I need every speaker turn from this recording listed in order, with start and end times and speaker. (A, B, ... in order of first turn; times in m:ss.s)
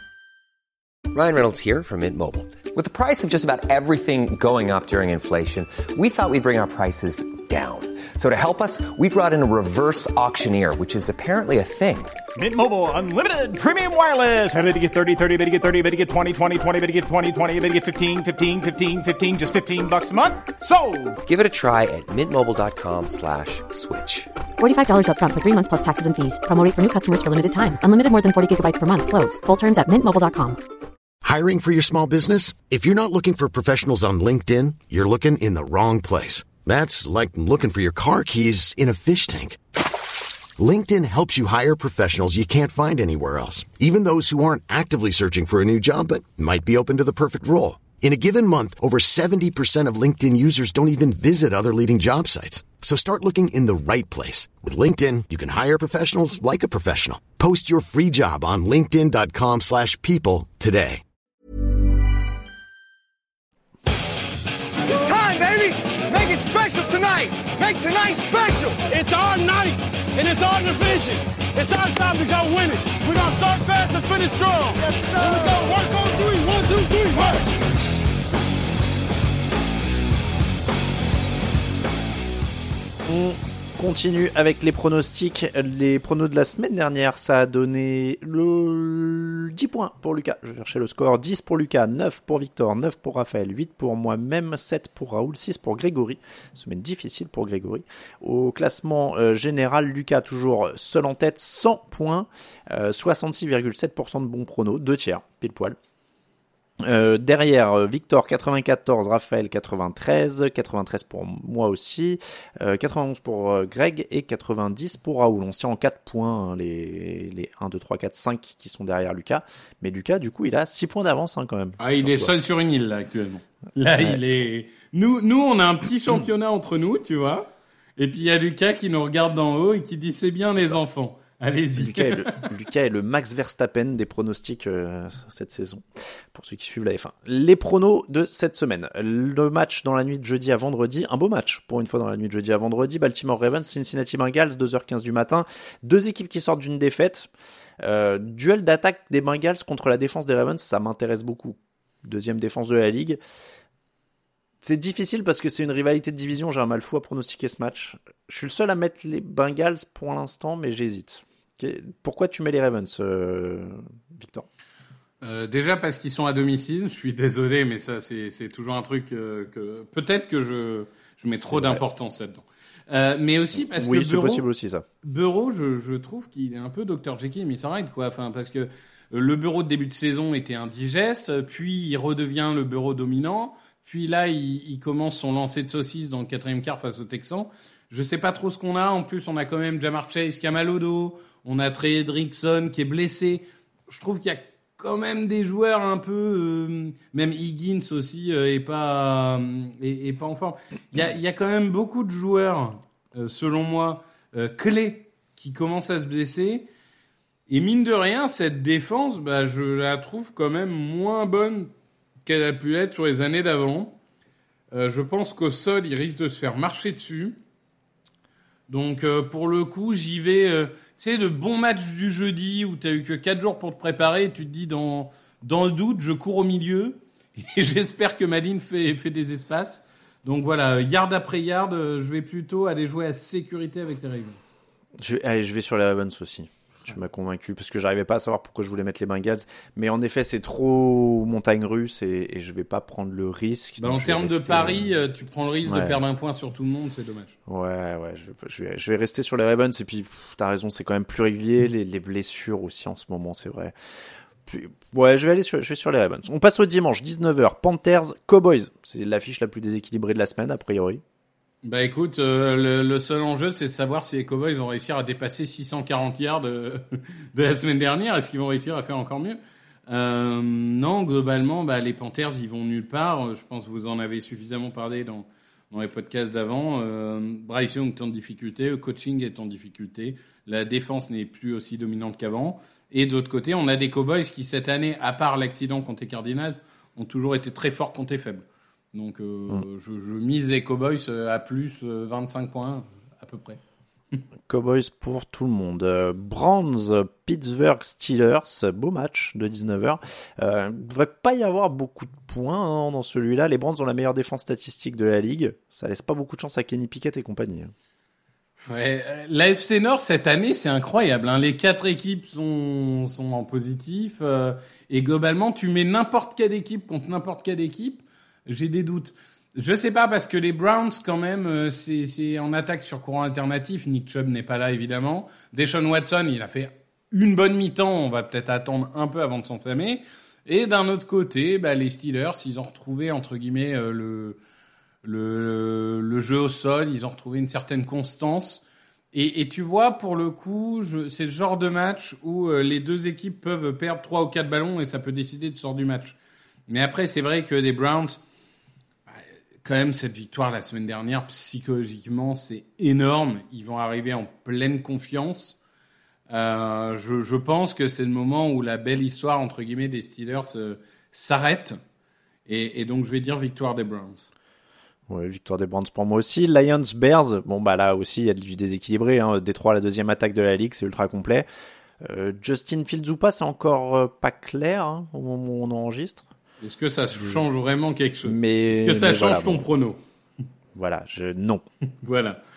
0:01.1-0:12.2 A
0:12.4-0:21.2 B
0:21.2-0:24.3 A
0:24.6-0:30.6 C
0:31.2-0:39.6 D
0:40.6-1:01.0 D
1:04.8-1:17.4 E
1:23.1-1:45.8 F
1:46.8-2:02.3 F
2:01.8-2:12.4 G
2:11.8-2:27.3 F
2:27.8-2:33.2 F
2:34.6-2:44.5 F
2:45.2-2:54.4 G
2:51.4-2:51.8 F
2:53.6-2:54.8 F
2:55.0-3:26.7 G
3:27.5-3:31.7 G
3:32.3-3:34.0 G
3:34.7-3:37.4 G
3:38.7-3:54.5 G
3:55.0-4:04.9 F
4:03.8-4:07.4 G
4:05.7-4:06.0 F
4:07.5-4:13.8 F
4:14.5-4:21.0 F
4:21.6-4:53.6 G
4:54.5-5:07.7 F
5:08.7-5:34.4 G
5:35.0-5:46.2 G
5:46.7-5:48.2 G
5:49.1-5:55.6 G
5:56.3-6:01.8 G
6:02.5-6:04.3 G
6:05.1-6:11.5 F
6:12.0-6:16.3 F
6:16.6-6:20.0 G
6:17.2-6:17.4 F
6:18.2-6:19.7 F
6:20.8-6:21.6 F
6:22.0-6:22.4 G